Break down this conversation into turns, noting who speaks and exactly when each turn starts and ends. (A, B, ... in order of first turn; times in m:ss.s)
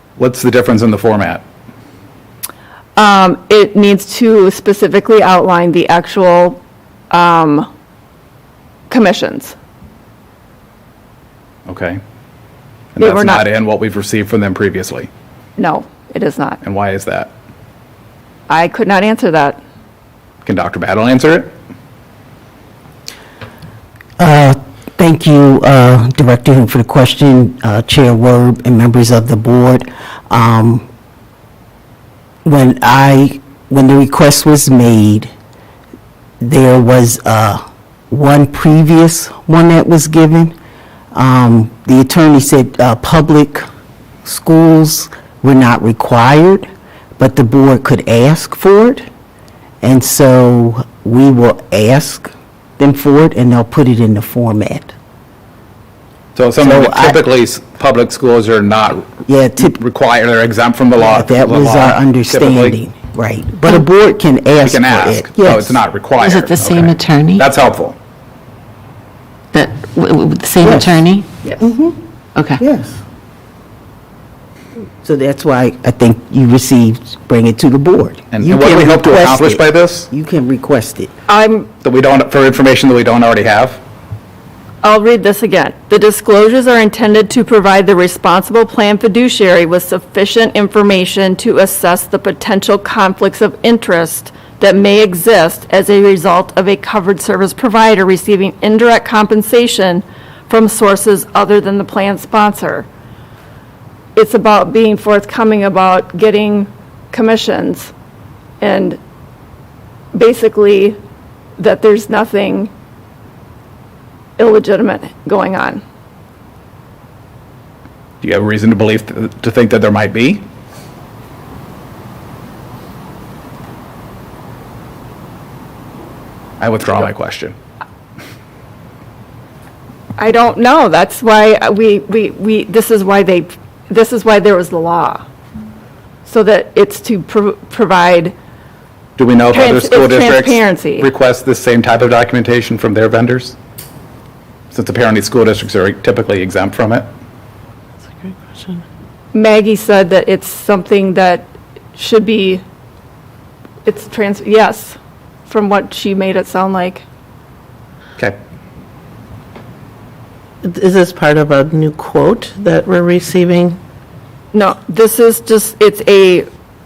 0:00.2-0:01.4 A
0:03.0-0:07.7 B
0:08.9-0:09.6 B
0:11.7-0:12.0 A
0:13.0-0:15.1 A
0:13.0-0:13.4 B
0:15.6-0:16.6 B
0:16.6-0:17.3 A
0:18.5-0:19.6 B
0:20.4-0:21.5 A
0:24.2-0:30.8 C
0:32.4-0:35.3 C
0:36.4-0:40.5 C
0:41.1-0:43.7 C
0:44.2-0:46.6 C
0:47.2-0:49.0 C
0:49.8-0:54.9 C
0:56.4-0:59.1 A
0:56.6-0:57.2 C
0:59.2-0:59.8 C
0:59.7-1:02.8 A
1:01.0-1:05.8 C
1:04.6-1:08.0 A
1:06.2-1:07.5 D
1:09.5-1:11.3 D
1:10.6-1:11.0 C
1:11.6-1:12.0 C
1:12.4-1:12.6 D
1:12.6-1:13.0 C
1:15.0-1:21.1 C
1:18.3-1:20.1 A
1:21.3-1:21.7 B
1:21.8-1:23.8 A
1:24.8-1:42.9 B
1:44.2-1:47.9 B
1:48.6-1:49.0 B
1:50.1-1:51.0 B
1:51.6-1:52.7 B
1:54.4-1:55.8 B
1:58.2-2:00.4 A
2:06.6-2:07.6 A
2:10.2-2:15.2 B
2:16.2-2:18.3 B
2:19.2-2:23.6 A
2:19.5-2:21.1 B
2:24.7-2:27.1 A
2:28.2-2:28.8 E
2:29.3-2:32.6 B
2:33.8-2:37.0 B
2:40.6-2:43.8 E
2:44.5-2:46.5 B